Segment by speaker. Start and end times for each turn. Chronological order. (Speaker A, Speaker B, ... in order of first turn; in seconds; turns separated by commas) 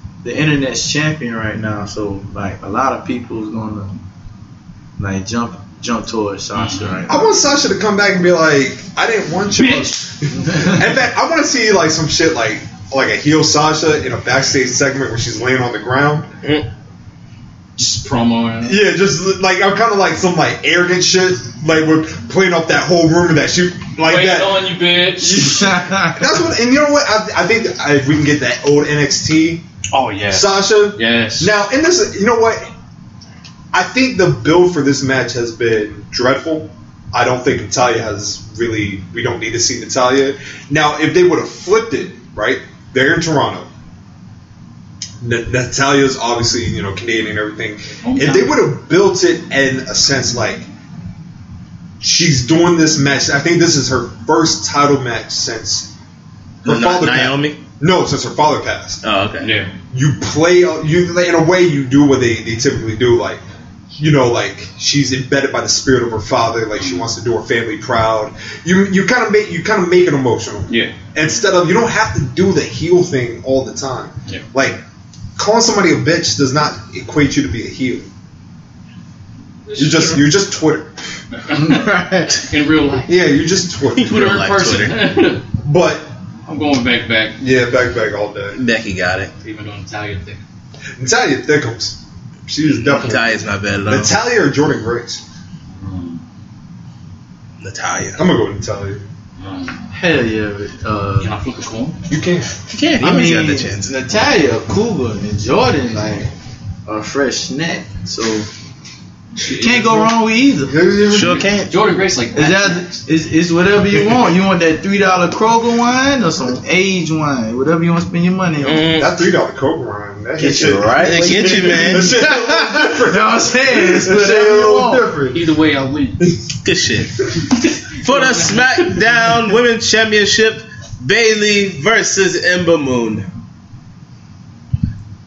Speaker A: 0.2-4.0, Speaker A: 5.0-7.2, Speaker B: 6.5-7.0, Speaker C: 7.1-16.3, Speaker B: 9.6-10.1, Speaker A: 10.5-10.8, Speaker B: 17.8-18.9, Speaker C: 18.6-24.7, Speaker B: 24.0-25.9, Speaker A: 25.2-26.3, Speaker C: 26.0-29.6, Speaker B: 29.9-31.5, Speaker C: 30.3-32.7, Speaker C: 33.7-43.7, Speaker C: 45.2-50.7, Speaker B: 48.0-48.6, Speaker C: 52.0-55.9, Speaker C: 56.6-59.0, Speaker D: 56.6-57.6, Speaker D: 59.0-59.5, Speaker B: 59.4-59.7, Speaker C: 59.9-63.4, Speaker C: 64.0-74.8, Speaker B: 70.7-70.9, Speaker C: 75.4-78.1, Speaker B: 79.7-80.3, Speaker C: 79.8-80.9, Speaker B: 81.3-83.2, Speaker A: 81.5-82.5, Speaker C: 83.1-84.3, Speaker B: 84.0-85.4, Speaker D: 84.0-85.1, Speaker C: 85.6-86.1, Speaker B: 86.5-87.4, Speaker C: 87.4-88.6, Speaker D: 88.5-89.3, Speaker B: 89.4-90.4, Speaker C: 91.0-95.2, Speaker D: 92.8-94.1, Speaker B: 95.8-96.2, Speaker D: 97.6-98.2, Speaker C: 98.2-99.0, Speaker B: 99.4-99.8, Speaker A: 99.9-101.3, Speaker B: 101.2-102.0, Speaker C: 102.1-102.5, Speaker D: 102.7-103.9, Speaker A: 103.0-106.3, Speaker A: 106.9-108.5, Speaker B: 109.4-110.1, Speaker A: 109.5-110.8, Speaker C: 110.6-111.5, Speaker D: 111.1-111.7, Speaker B: 111.4-113.0, Speaker A: 112.3-118.9, Speaker D: 118.6-119.1, Speaker C: 118.9-125.4, Speaker A: 120.4-125.1, Speaker D: 121.0-122.1, Speaker B: 125.3-126.3, Speaker D: 126.6-127.2, Speaker B: 127.5-129.3, Speaker D: 128.0-133.3